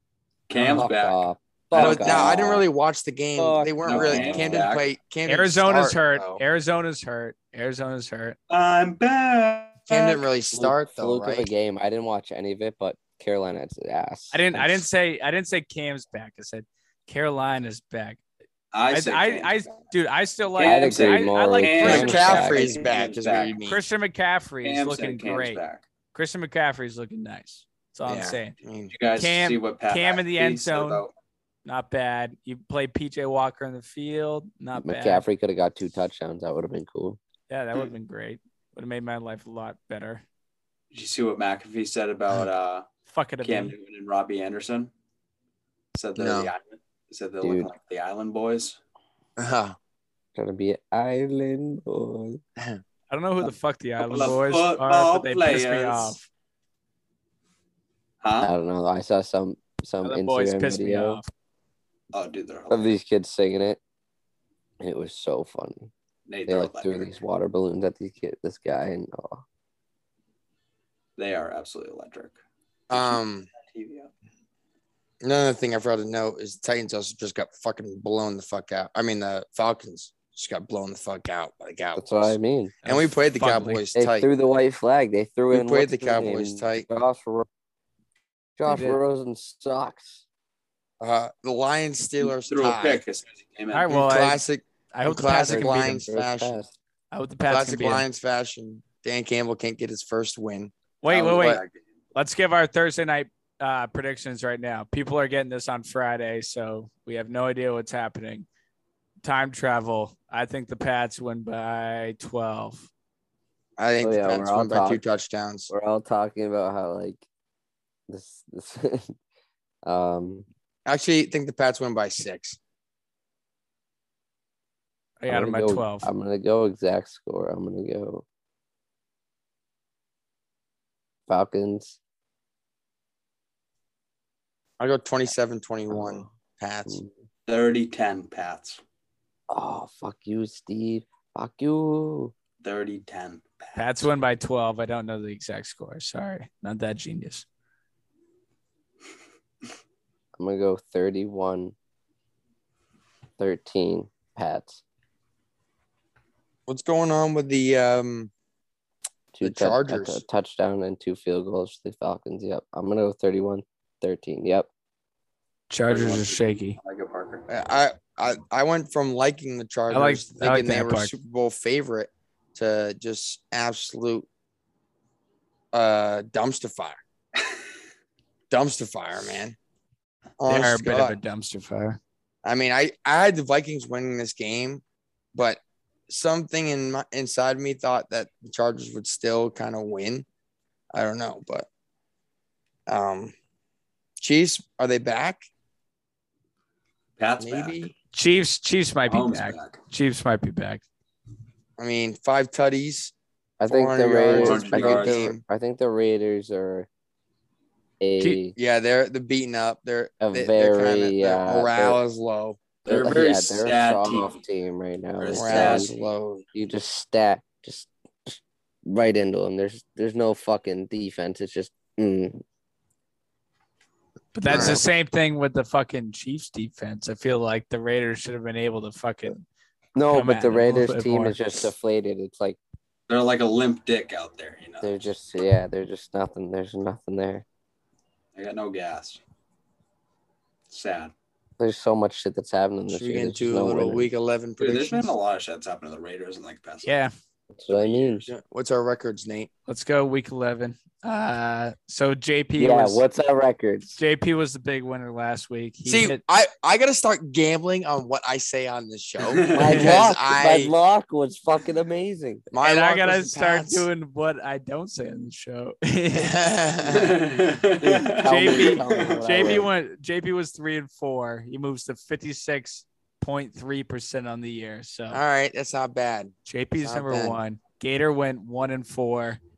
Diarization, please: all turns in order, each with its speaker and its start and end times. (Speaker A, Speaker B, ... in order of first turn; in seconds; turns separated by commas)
Speaker A: 0.5-2.4, Speaker B: 0.7-2.7, Speaker C: 1.7-6.4, Speaker B: 3.4-4.7, Speaker A: 3.8-4.8, Speaker D: 5.2-8.4, Speaker A: 8.5-10.2, Speaker C: 9.9-11.5, Speaker B: 10.5-14.8, Speaker D: 14.3-18.2, Speaker A: 18.7-19.6, Speaker D: 18.9-22.5, Speaker A: 20.6-23.6, Speaker B: 20.6-22.8, Speaker C: 21.8-23.8, Speaker D: 23.6-25.6, Speaker A: 24.6-25.8, Speaker D: 26.1-28.6, Speaker C: 28.1-28.9, Speaker A: 28.9-31.1, Speaker D: 29.1-31.0, Speaker D: 31.6-35.2, Speaker B: 34.7-37.2, Speaker D: 37.5-40.2, Speaker A: 40.9-42.8, Speaker D: 43.1-43.7, Speaker A: 43.4-44.9, Speaker A: 45.9-48.8, Speaker C: 46.1-46.5, Speaker B: 47.4-47.7, Speaker C: 49.4-49.8, Speaker B: 50.3-52.4, Speaker D: 53.1-56.3, Speaker A: 54.0-56.2, Speaker A: 58.2-58.5, Speaker B: 58.4-61.2, Speaker D: 60.0-61.3, Speaker A: 62.1-63.0, Speaker B: 62.7-63.8, Speaker B: 64.8-65.9, Speaker A: 66.3-67.1, Speaker B: 66.5-69.4, Speaker A: 71.2-72.4, Speaker C: 72.9-73.5, Speaker A: 72.9-74.1, Speaker C: 75.2-84.3, Speaker B: 82.0-82.8, Speaker D: 82.8-83.8, Speaker B: 83.9-87.5, Speaker C: 85.5-86.9, Speaker B: 88.6-90.2, Speaker D: 88.7-89.0, Speaker C: 91.0-93.0, Speaker A: 92.2-93.9, Speaker D: 93.7-94.4, Speaker C: 93.9-96.6, Speaker D: 94.9-96.0, Speaker B: 95.2-96.7, Speaker D: 97.1-98.0, Speaker C: 97.5-101.6, Speaker D: 101.0-101.6, Speaker A: 101.3-101.7, Speaker D: 102.1-108.5, Speaker D: 109.2-112.9, Speaker C: 113.8-115.7, Speaker B: 114.0-115.0, Speaker B: 115.7-117.2, Speaker B: 118.1-119.2, Speaker B: 119.8-120.5, Speaker C: 120.8-122.6, Speaker D: 125.2-126.1, Speaker B: 125.3-128.2, Speaker B: 131.3-132.0, Speaker C: 134.8-137.0, Speaker B: 135.9-136.3, Speaker B: 136.9-137.1, Speaker A: 137.5-138.8, Speaker B: 139.5-142.3, Speaker A: 142.6-144.1, Speaker D: 143.7-147.4, Speaker B: 150.4-151.7, Speaker B: 153.4-154.8, Speaker C: 156.7-158.3, Speaker B: 159.3-164.7, Speaker C: 159.4-160.2, Speaker D: 165.7-166.8, Speaker A: 165.9-167.4, Speaker C: 167.5-174.3, Speaker D: 169.9-171.1, Speaker C: 175.7-177.0, Speaker C: 178.5-179.6, Speaker C: 180.4-181.2, Speaker D: 180.5-182.0, Speaker C: 182.4-184.8, Speaker C: 185.3-190.2, Speaker C: 190.9-191.7, Speaker C: 192.9-193.3, Speaker C: 194.2-195.5, Speaker A: 197.2-197.8, Speaker C: 197.4-197.9, Speaker D: 198.1-200.8, Speaker A: 199.1-199.8, Speaker C: 201.8-205.4, Speaker B: 203.6-206.9, Speaker A: 204.3-205.3, Speaker B: 208.0-208.6, Speaker C: 208.6-212.8, Speaker B: 210.2-212.0, Speaker B: 212.8-215.9, Speaker A: 212.8-214.4, Speaker A: 215.2-215.9, Speaker C: 215.3-216.4, Speaker B: 216.5-222.4, Speaker D: 224.3-229.4, Speaker B: 224.5-224.8, Speaker C: 224.5-224.8, Speaker B: 229.9-232.6, Speaker D: 230.1-231.4, Speaker A: 233.1-235.1, Speaker B: 234.8-237.4, Speaker A: 238.3-239.2, Speaker A: 240.7-241.1, Speaker B: 241.6-244.1, Speaker C: 242.9-245.1, Speaker A: 244.6-246.9, Speaker D: 246.8-247.1, Speaker B: 247.5-248.3, Speaker A: 247.7-248.3, Speaker C: 248.3-249.5, Speaker D: 249.7-253.0, Speaker B: 252.6-254.0, Speaker D: 254.0-256.2, Speaker C: 255.8-260.7, Speaker A: 259.3-259.9, Speaker B: 259.5-262.5, Speaker C: 262.5-263.9, Speaker D: 262.6-266.4, Speaker C: 266.1-267.2, Speaker A: 266.9-269.4, Speaker B: 267.8-269.7, Speaker D: 268.2-275.2, Speaker C: 275.1-277.4, Speaker D: 276.4-279.4